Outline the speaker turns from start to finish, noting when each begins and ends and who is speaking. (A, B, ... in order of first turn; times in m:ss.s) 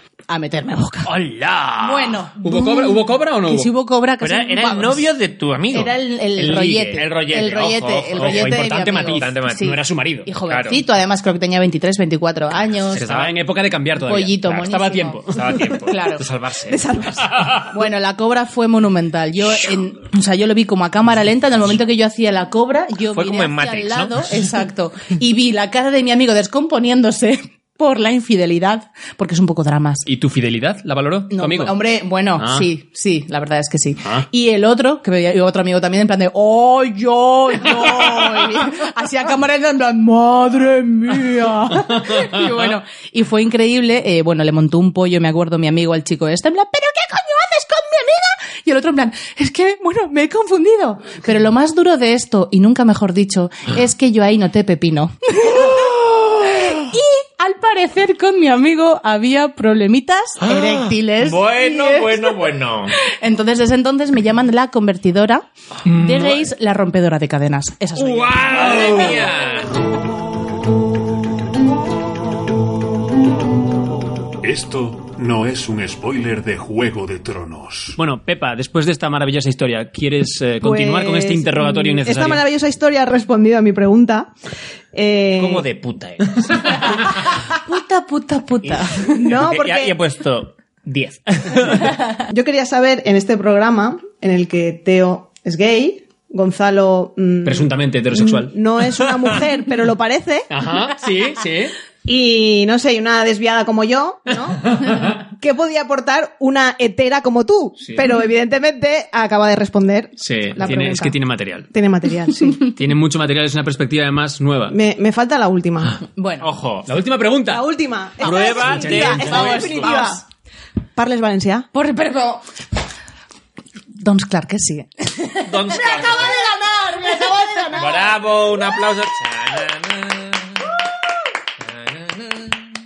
0:00.3-0:01.1 A
0:01.1-0:01.8 B
0:01.2-0:01.8 C
0:01.8-0:05.0 A
0:02.4-0:03.7 C
0:04.2-0:09.8 B
0:05.7-0:13.1 A
0:06.4-0:07.4 C
0:08.2-0:10.3 C
0:10.5-0:10.8 B
0:12.9-0:13.3 B
0:13.0-0:15.6 C
0:14.0-0:15.2 A
0:15.3-0:16.8 B
0:15.9-0:16.2 A
0:16.7-0:17.6 D
0:17.7-0:30.0 A
0:23.1-0:24.4 B
0:30.0-0:31.8 C
0:31.3-0:55.9 A
0:32.4-0:32.7 C
0:41.7-0:42.6 C
0:56.4-1:02.4 A
1:00.4-1:03.0 B
1:03.0-1:09.0 A
1:05.9-1:06.2 C
1:08.0-1:09.7 B
1:08.7-1:09.1 C
1:14.6-1:17.9 E
1:17.9-1:22.4 C
1:20.6-1:24.3 D
1:24.9-1:25.6 D
1:25.4-1:27.2 B
1:27.5-1:29.2 A
1:28.6-1:31.9 B
1:29.1-1:30.0 D
1:32.3-1:40.5 D
1:37.4-1:38.5 C
1:40.5-1:41.8 C
1:42.0-1:51.1 D
1:50.2-1:51.7 C
1:51.7-1:52.7 D
1:52.7-1:54.8 C
1:54.7-1:56.0 D
1:56.1-1:56.5 A
1:56.4-1:56.9 B
1:56.8-1:57.6 C
1:57.5-2:00.2 D
1:58.2-2:00.1 B
1:58.5-1:59.7 C
1:59.3-2:00.2 A
2:01.0-2:01.7 D
2:01.7-2:02.4 A
2:04.0-2:06.2 A
2:05.4-2:06.3 B
2:06.0-2:08.0 D
2:07.1-2:07.8 A
2:07.7-2:10.6 B
2:11.6-2:12.6 B